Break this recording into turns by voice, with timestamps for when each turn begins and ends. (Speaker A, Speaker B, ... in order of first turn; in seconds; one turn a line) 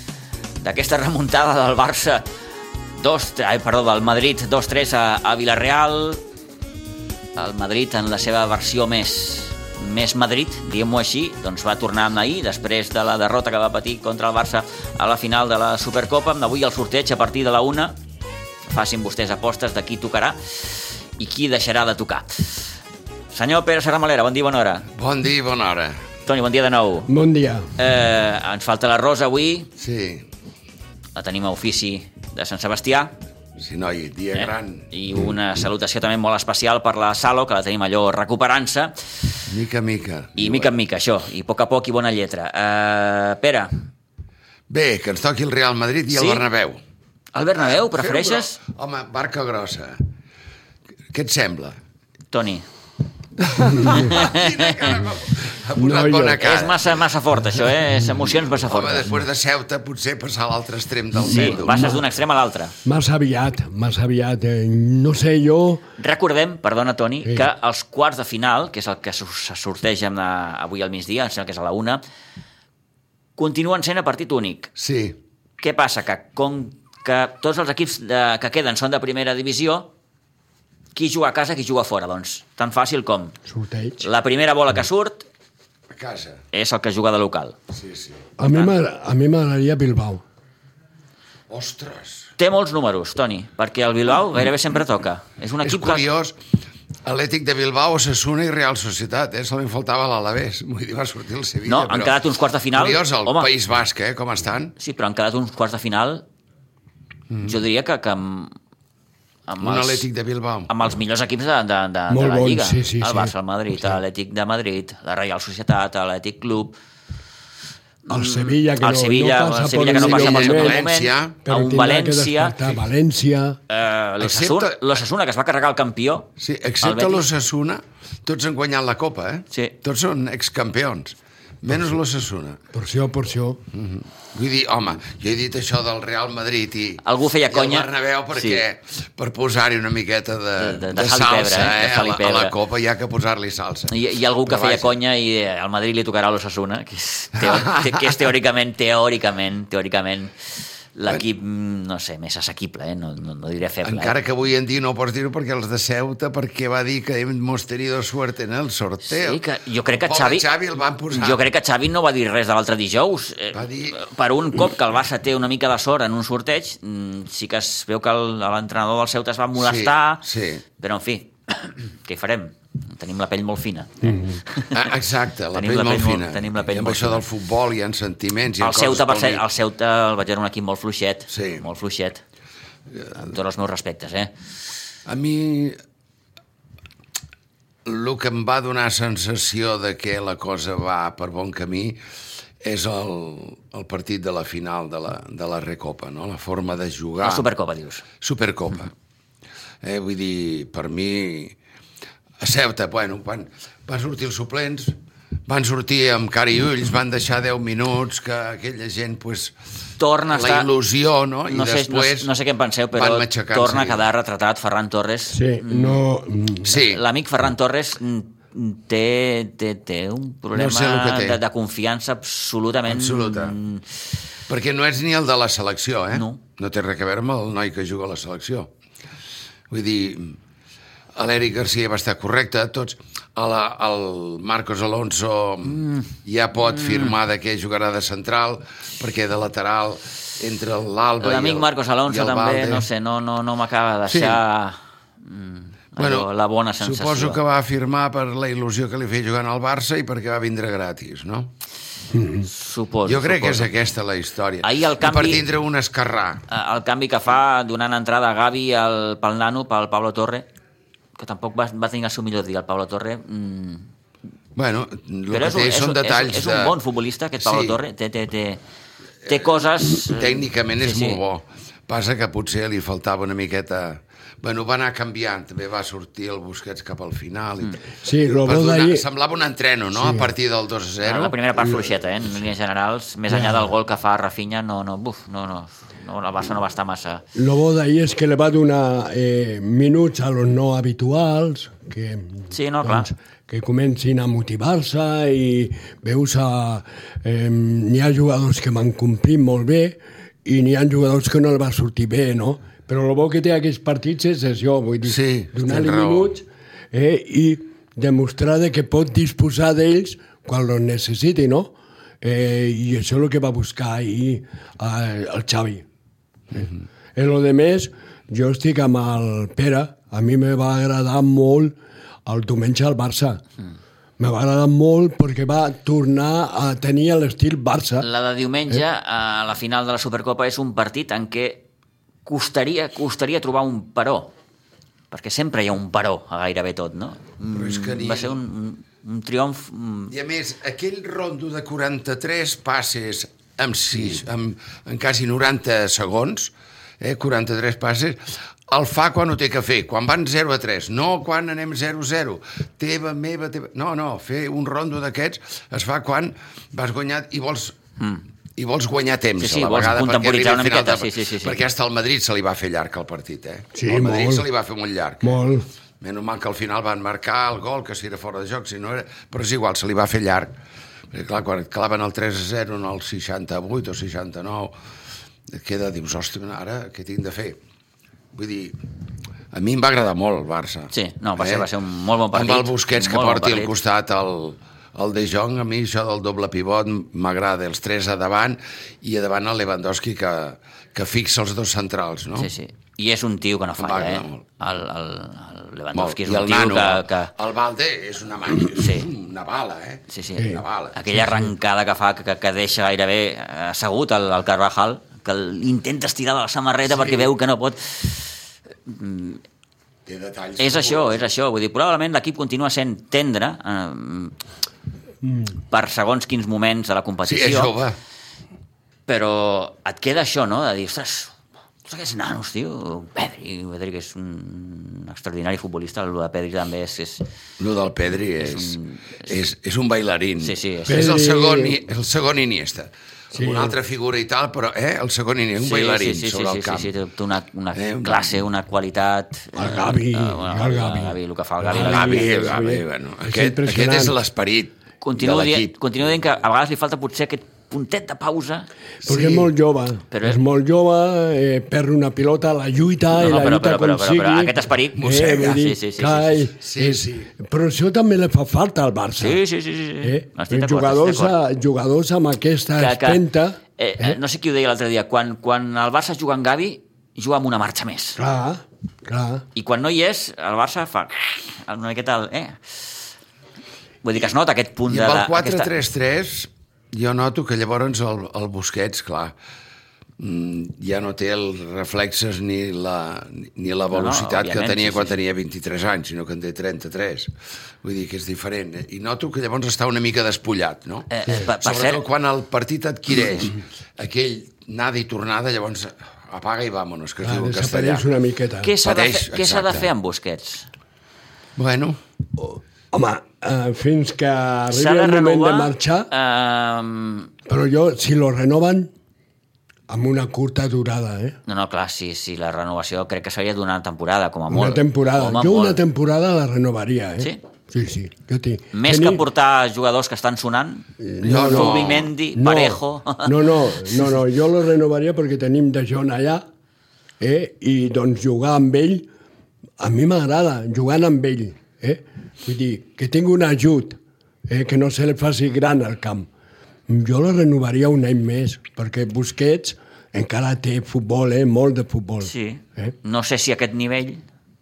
Speaker A: 0.6-2.3
Speaker A: 3.0-6.2
Speaker A: 7.3-18.0
Speaker A: 18.7-22.7
Speaker A: 23.3-24.9
Speaker B: 24.9-26.0
Speaker A: 26.2-27.1
Speaker C: 27.1-27.7
Speaker A: 27.8-29.7
Speaker B: 29.8-30.2
Speaker A: 31.1-33.1
Speaker B: 33.6-34.9
Speaker A: 34.3-38.9
Speaker B: 39.5-40.7
Speaker A: 40.4-43.7
Speaker B: 44.7-46.8
Speaker A: 46.1-46.4
Speaker A: 47.3-48.6
Speaker B: 47.5-50.0
Speaker B: 51.1-51.8
Speaker A: 52.3-52.6
Speaker B: 53.5-57.0
Speaker C: 53.6-54.1
Speaker A: 53.7-54.9
Speaker C: 55.8-56.4
Speaker A: 56.4-59.1
Speaker B: 58.5-62.0
Speaker A: 61.2-62.7
Speaker C: 61.2-62.0
Speaker C: 62.8-65.8
Speaker A: 66.0-72.0
Speaker A: 73.4-74.7
Speaker B: 74.8-75.2
Speaker A: 75.6-79.9
Speaker A: 80.9-83.3
Speaker C: 83.5-84.0
Speaker A: 84.0-85.2
Speaker B: 85.9-86.4
Speaker A: 86.5-87.5
Speaker B: 87.7-88.2
Speaker C: 88.4-90.2
Speaker A: 88.4-88.7
Speaker B: 91.5-92.3
Speaker A: 92.4-96.0
Speaker B: 95.6-96.3
Speaker B: 97.0-102.2
Speaker A: 101.6-103.5
Speaker B: 102.7-104.7
Speaker A: 104.8-106.2
Speaker B: 107.3-107.5
Speaker A: 107.4-108.5
Speaker A: 109.5-110.1
Speaker B: 109.6-110.7
Speaker A: 110.7-116.7
Speaker C: 112.1-113.3
Speaker A: 118.0-122.6
Speaker C: 118.1-120.8
Speaker B: 119.9-121.4
Speaker C: 121.4-123.6
Speaker A: 123.7-126.3
Speaker B: 124.2-124.8
Speaker B: 126.4-132.6
Speaker A: 126.8-127.3
Speaker C: 132.7-133.6
Speaker B: 133.7-144.9
Speaker A: 137.0-138.6
Speaker A: 140.6-142.5
Speaker A: 143.9-150.3
Speaker B: 147.4-148.0
Speaker A: 150.9-154.1
Speaker B: 153.8-159.4
Speaker A: 159.1-160.4
Speaker B: 160.0-161.4
Speaker A: 161.1-170.2
Speaker B: 163.5-164.0
Speaker B: 169.6-170.6
Speaker A: 170.8-174.9
Speaker C: 174.1-174.3
Speaker B: 174.7-179.4
Speaker A: 175.5-177.2
Speaker A: 178.6-182.2
Speaker B: 181.3-181.6
Speaker A: 183.1-184.3
Speaker B: 185.1-185.8
Speaker B: 187.8-192.0
Speaker B: 192.6-197.5
Speaker A: 197.2-198.0
Speaker B: 198.2-198.9
Speaker B: 199.8-201.6
Speaker B: 202.4-204.9
Speaker B: 205.5-209.5
Speaker A: 210.0-210.7
Speaker B: 210.3-212.3
Speaker A: 211.5-216.0
Speaker B: 212.9-214.0
Speaker C: 215.3-216.7
Speaker B: 216.6-217.0
Speaker A: 216.7-223.8
Speaker B: 220.5-221.4
Speaker B: 222.9-223.6
Speaker B: 224.5-228.7
Speaker A: 226.1-226.4
Speaker B: 229.7-230.4
Speaker B: 231.2-242.9
Speaker A: 235.7-236.1
Speaker A: 236.7-237.1
Speaker A: 241.2-247.4
Speaker B: 244.1-244.4
Speaker B: 246.0-246.3
Speaker B: 246.8-251.5
Speaker C: 252.1-252.5
Speaker A: 252.4-253.7
Speaker B: 253.1-256.4
Speaker A: 254.6-255.4
Speaker A: 256.5-260.5
Speaker A: 261.2-263.9
Speaker B: 264.6-266.8
Speaker A: 265.3-268.6
Speaker B: 267.4-267.8
Speaker A: 269.2-271.2
Speaker B: 269.3-277.8
Speaker C: 278.0-279.0
Speaker B: 278.4-281.8
Speaker C: 279.9-280.3
Speaker A: 281.0-287.2
Speaker C: 283.3-283.7
Speaker C: 287.3-315.8
Speaker A: 292.5-293.1
Speaker B: 305.0-306.3
Speaker C: 316.5-323.4
Speaker C: 324.2-328.1
Speaker A: 328.0-331.6
Speaker A: 332.2-334.3
Speaker A: 335.1-340.1
Speaker B: 337.5-338.4
Speaker B: 340.1-357.8
Speaker B: 358.6-365.4
Speaker A: 359.4-361.6
Speaker C: 363.7-364.5
Speaker C: 365.2-365.6
Speaker B: 366.0-370.6
Speaker B: 371.1-374.7
Speaker B: 375.5-377.6
Speaker B: 378.3-378.8
Speaker B: 379.5-381.7
Speaker A: 380.9-383.7
Speaker B: 382.3-392.5
Speaker A: 392.4-397.3
Speaker B: 393.8-394.4
Speaker B: 395.9-401.0
Speaker A: 398.7-399.1
Speaker A: 400.1-408.3
Speaker C: 400.4-401.5
Speaker A: 408.9-409.4
Speaker B: 410.1-411.2
Speaker A: 410.6-414.3
Speaker A: 415.7-417.7
Speaker B: 417.2-418.0
Speaker A: 419.1-421.3
Speaker A: 421.9-427.2
Speaker B: 427.6-436.9
Speaker A: 428.4-429.3
Speaker A: 430.4-431.0
Speaker C: 430.9-431.8
Speaker C: 433.3-433.7
Speaker A: 435.6-442.5
Speaker B: 437.7-438.3
Speaker C: 439.6-444.1
Speaker B: 441.7-445.7
Speaker A: 445.0-448.7
Speaker C: 449.0-459.4
Speaker B: 449.0-449.5
Speaker A: 450.1-450.4
Speaker A: 453.1-456.4
Speaker B: 455.0-455.6
Speaker B: 456.6-457.3
Speaker A: 459.2-461.4
Speaker C: 460.0-464.2
Speaker A: 462.8-463.2
Speaker A: 463.8-468.2
Speaker C: 468.2-469.4
Speaker A: 469.5-472.6
Speaker A: 474.0-475.7
Speaker B: 474.9-479.3
Speaker B: 480.2-487.3
Speaker A: 483.9-485.1
Speaker B: 487.8-498.1
Speaker A: 491.1-492.0
Speaker C: 497.2-498.7
Speaker A: 498.6-500.7
Speaker B: 498.8-499.9
Speaker B: 501.6-502.0
Speaker C: 502.4-506.1
Speaker A: 504.7-507.3
Speaker C: 507.4-508.9
Speaker C: 509.9-511.4
Speaker A: 511.4-515.8
Speaker C: 514.5-519.2
Speaker A: 518.7-524.1
Speaker C: 521.0-526.4
Speaker B: 521.2-522.1
Speaker C: 527.2-529.1
Speaker C: 529.8-536.3
Speaker C: 536.9-542.9
Speaker A: 542.2-544.2